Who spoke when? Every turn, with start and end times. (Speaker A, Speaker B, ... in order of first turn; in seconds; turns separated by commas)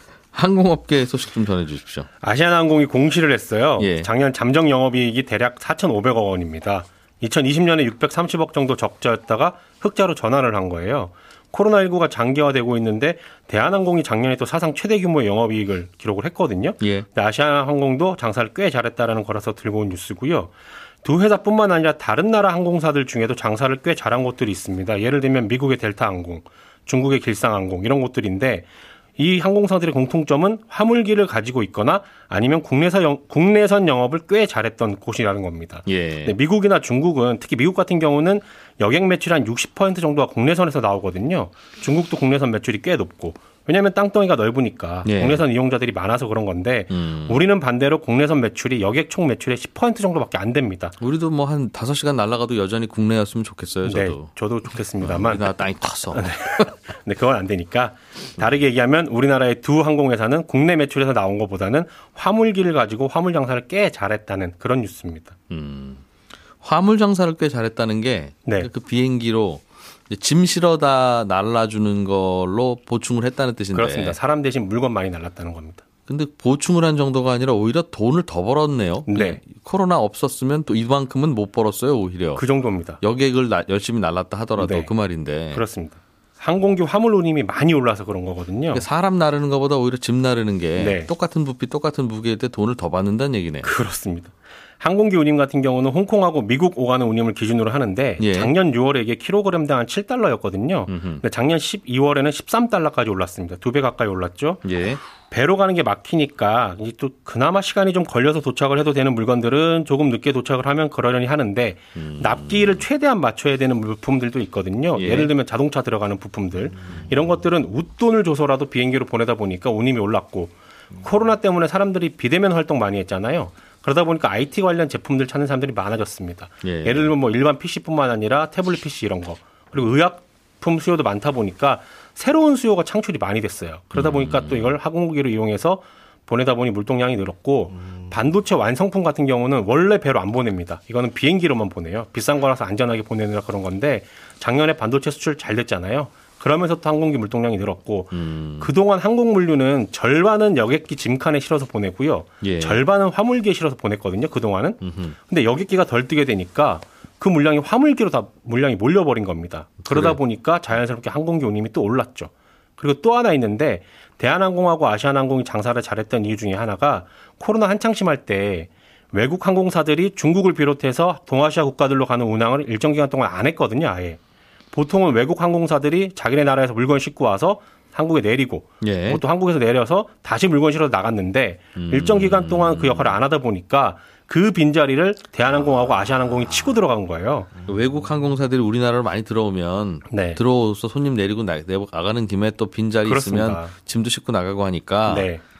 Speaker A: 0.3-2.1, Speaker B: 2.2-20.5, Speaker A: 3.8-4.1, Speaker A: 16.8-17.1, Speaker B: 21.0-51.0, Speaker A: 35.9-36.4, Speaker A: 45.0-45.4, Speaker A: 46.9-47.4, Speaker A: 51.0-54.3, Speaker B: 53.9-65.4, Speaker A: 55.0-56.7, Speaker A: 65.5-66.0, Speaker A: 66.6-74.2, Speaker B: 73.7-75.8, Speaker A: 76.1-82.5, Speaker B: 79.1-79.4, Speaker B: 82.4-83.0, Speaker A: 83.0-85.6, Speaker B: 84.6-84.9, Speaker B: 85.5-88.8, Speaker A: 88.7-93.7, Speaker B: 90.8-91.1, Speaker B: 93.6-104.7, Speaker A: 98.2-98.5, Speaker A: 100.9-101.2, Speaker A: 104.6-105.0, Speaker B: 105.3-174.2, Speaker A: 112.0-112.8, Speaker A: 115.0-115.3, Speaker A: 126.6-127.1, Speaker A: 133.9-134.8, Speaker A: 148.1-148.7, Speaker A: 152.4-152.8, Speaker A: 154.8-155.2, Speaker A: 159.9-160.2, Speaker B: 174.7-187.5, Speaker A: 178.8-179.2, Speaker A: 181.8-183.2, Speaker A: 187.7-195.3, Speaker B: 190.1-190.4, Speaker B: 193.1-193.7, Speaker B: 195.1-195.4